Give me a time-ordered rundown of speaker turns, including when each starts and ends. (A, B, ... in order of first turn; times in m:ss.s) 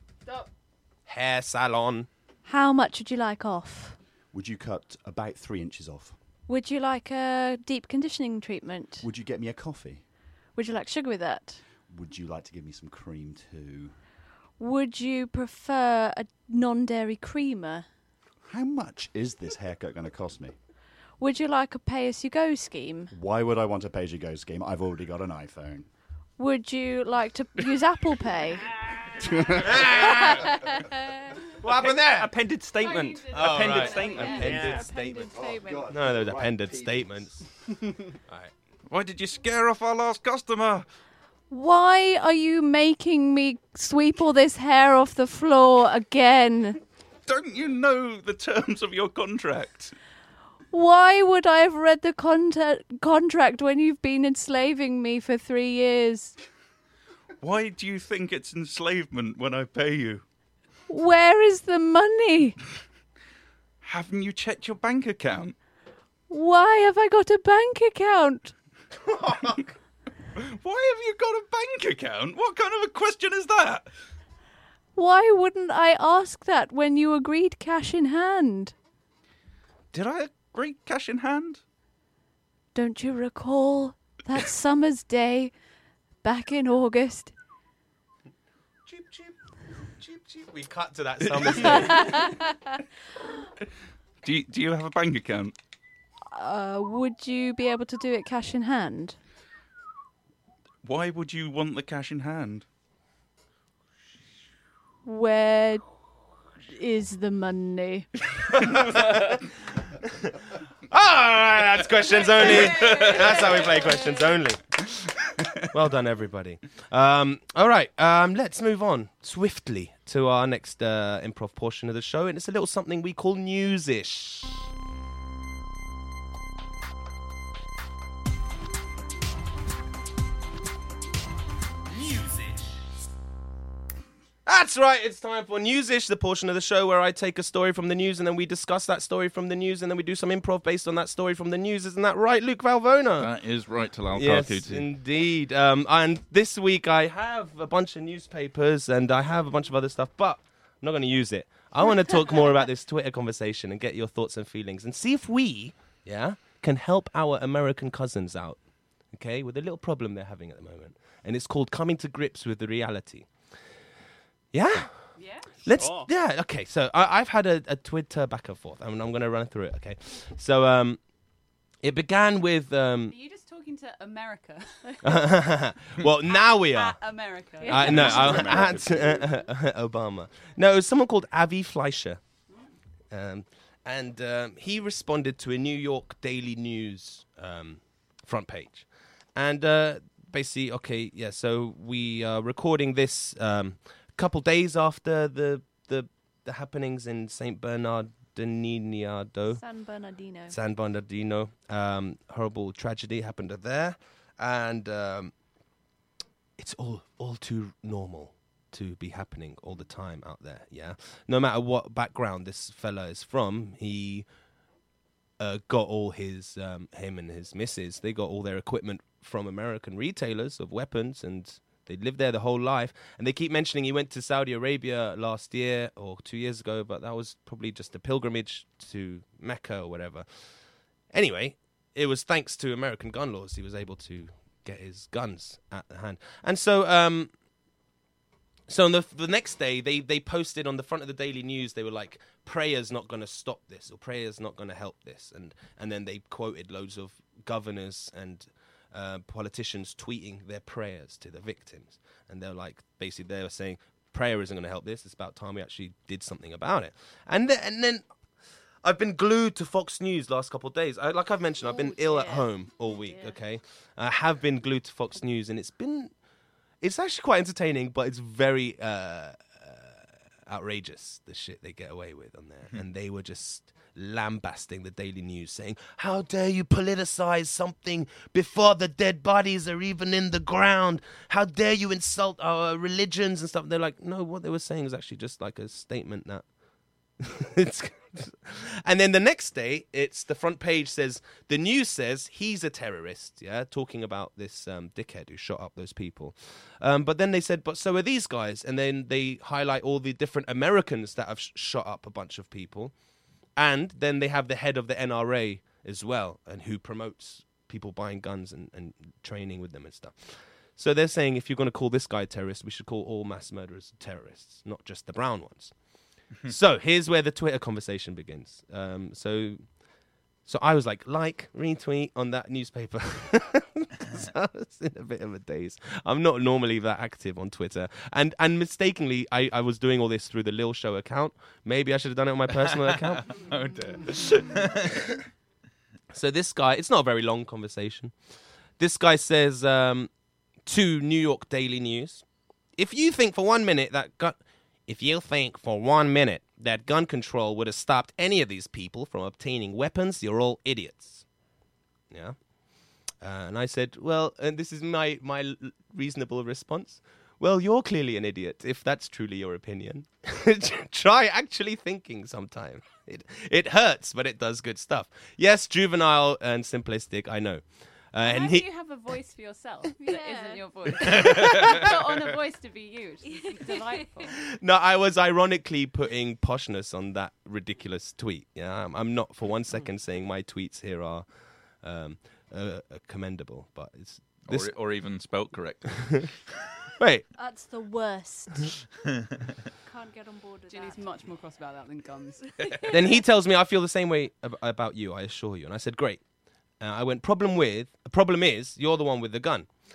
0:01.1-0:02.1 A
0:02.4-0:04.0 B
0:04.3-0:06.2 C
0:06.5-0:09.0 B
0:09.0-0:10.0 C
0:10.5-0:11.6 B
0:11.9-0:14.0 C
0:14.6-0:17.8 B
0:18.5-0:20.5 C
0:21.2-0:23.1 B
0:23.1-0:25.9 C
0:26.4-0:28.6 B
0:29.2-0:29.8 C
0:29.6-0:30.6 A
0:30.0-0:31.2 B
0:31.6-0:32.3 A
0:31.6-0:34.9 D
0:32.8-0:34.6 E
0:33.3-0:35.4 A
0:34.4-0:35.9 B
0:35.0-0:37.4 C
0:35.9-0:37.4 A
0:38.9-0:40.8 F
0:41.5-0:46.8 B
0:47.2-0:49.9 F
0:50.7-0:56.4 B
0:57.4-1:00.2 F
1:00.9-1:02.6 B
1:03.8-1:05.5 F
1:06.3-1:08.5 B
1:09.0-1:09.7 A
1:10.4-1:13.9 F
1:14.9-1:18.7 B
1:19.9-1:21.6 F
1:22.7-1:25.5 B
1:26.2-1:27.3 B
1:28.8-1:29.3 A
1:30.0-1:32.3 A
1:31.7-1:32.5 B
1:34.2-1:35.5 F
1:36.3-1:39.2 B
1:40.8-1:42.6 F
1:45.0-1:45.8 B
1:46.6-1:48.1 B
1:48.7-1:49.2 A
1:50.9-1:54.6 A
1:52.8-1:54.0 E
1:55.7-2:04.6 A
2:12.0-2:12.6 A
2:14.4-2:23.3 A
2:23.2-2:24.9 F
2:24.1-2:38.6 A
2:39.1-2:43.3 A
2:44.5-2:44.9 A
2:45.2-2:45.5 E
2:45.6-2:51.0 A
2:45.7-2:46.1 D
2:51.8-2:53.1 A
2:53.1-2:54.8 E
2:55.0-2:57.0 A
2:56.3-2:58.1 E
2:57.6-2:58.6 B
2:57.6-3:02.2 A
2:57.7-2:59.3 C
3:03.1-3:19.6 A
3:19.5-3:20.5 B
3:20.5-3:25.3 A
3:26.6-3:34.2 A
3:35.4-3:50.2 A
3:51.1-3:57.3 A
3:58.7-4:18.0 A
4:18.8-4:26.1 A
4:21.6-4:23.4 B
4:26.8-4:46.4 A
4:47.2-5:02.9 A
5:03.6-5:10.2 A
5:10.8-5:15.7 A
5:16.4-5:19.6 A
5:20.4-5:33.4 A
5:32.5-5:35.1 F
5:36.1-5:38.1 A
5:38.8-5:40.1 A
5:40.6-5:42.2 A
5:42.8-5:51.2 A
5:52.1-5:52.4 A
5:53.2-6:08.7 A
6:08.2-6:14.3 E
6:10.0-6:10.7 B
6:14.4-6:21.2 A
6:21.8-6:24.7 A
6:24.4-6:26.2 F
6:27.0-6:27.2 A
6:27.3-6:28.7 B
6:29.8-6:31.1 B
6:30.7-6:32.4 E
6:32.9-6:36.2 A
6:36.8-6:39.7 A